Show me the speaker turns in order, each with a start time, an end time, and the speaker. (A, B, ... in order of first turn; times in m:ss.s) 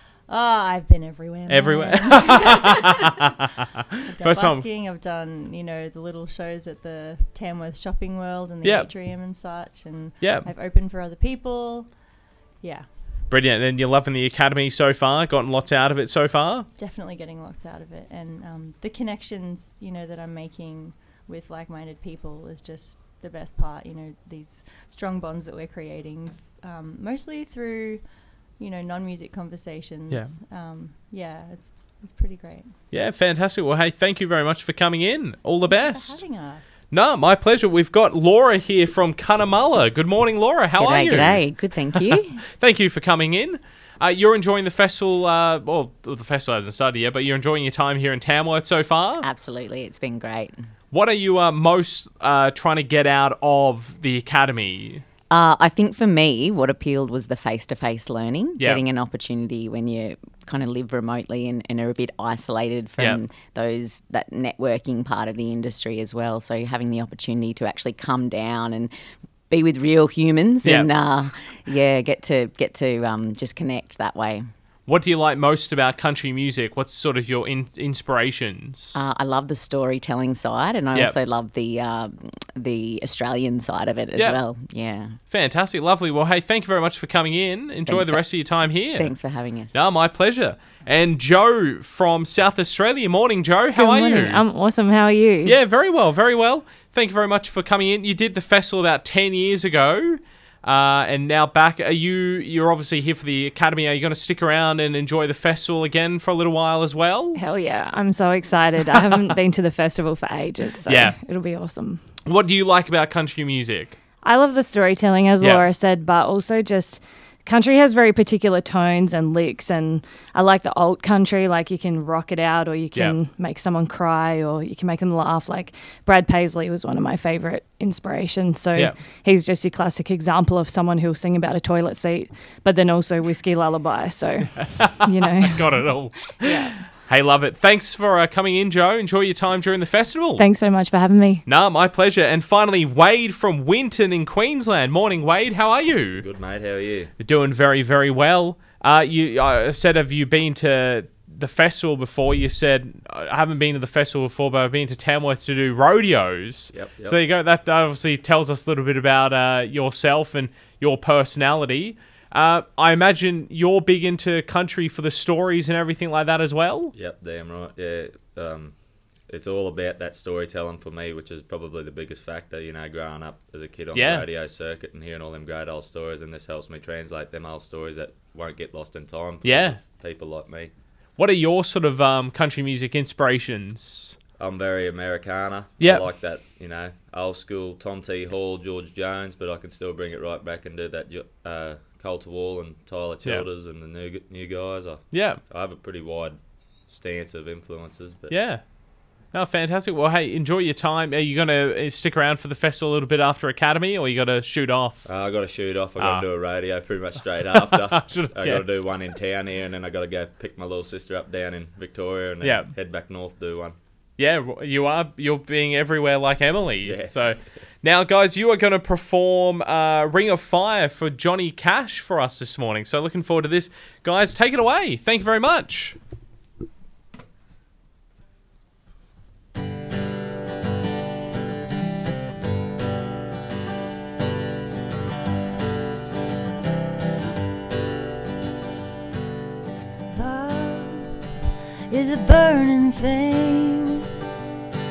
0:00.3-0:03.1 A
0:01.5-0:04.6 B
0:04.1-0:11.9 A
0:10.2-0:10.5 B
0:13.3-0:16.7 B
0:16.8-0:28.0 A
0:28.6-0:32.7 A
0:32.9-0:36.2 B
0:35.7-0:36.8 A
0:36.9-0:49.3 B
0:40.7-0:42.4 C
0:49.2-0:50.6 C
0:50.9-0:55.0 B
0:55.3-1:08.9 C
1:09.5-1:14.4 C
1:14.9-1:19.0 B
1:19.0-1:25.2 C
1:25.3-1:29.2 B
1:27.9-1:28.3 C
1:28.9-1:29.8 C
1:29.7-1:34.4 B
1:33.7-1:35.6 D
1:35.4-1:47.4 B
1:47.4-1:52.0 D
1:48.8-1:49.2 B
1:50.9-1:51.2 B
1:52.2-1:54.0 B
1:54.2-2:15.9 D
2:14.6-2:20.5 B
2:16.4-2:16.7 D
2:20.4-2:21.4 D
2:21.4-2:26.2 B
2:26.2-2:27.1 E
2:27.2-2:46.9 B
2:36.7-2:37.2 E
2:46.9-2:48.8 E
2:49.3-3:00.7 E
2:54.0-2:54.2 B
2:59.4-2:59.8 B
3:01.2-3:04.2 B
3:04.4-3:18.4 E
3:05.8-3:06.0 B
3:15.1-3:15.4 B
3:18.3-3:18.6 B
3:19.3-3:25.1 B
3:25.0-3:33.8 E
3:26.0-3:26.3 B
3:27.5-3:28.8 B
3:32.4-3:32.7 B
3:34.2-3:46.0 B
3:36.8-3:37.3 E
4:00.1-4:01.2 A
4:01.9-4:04.0 A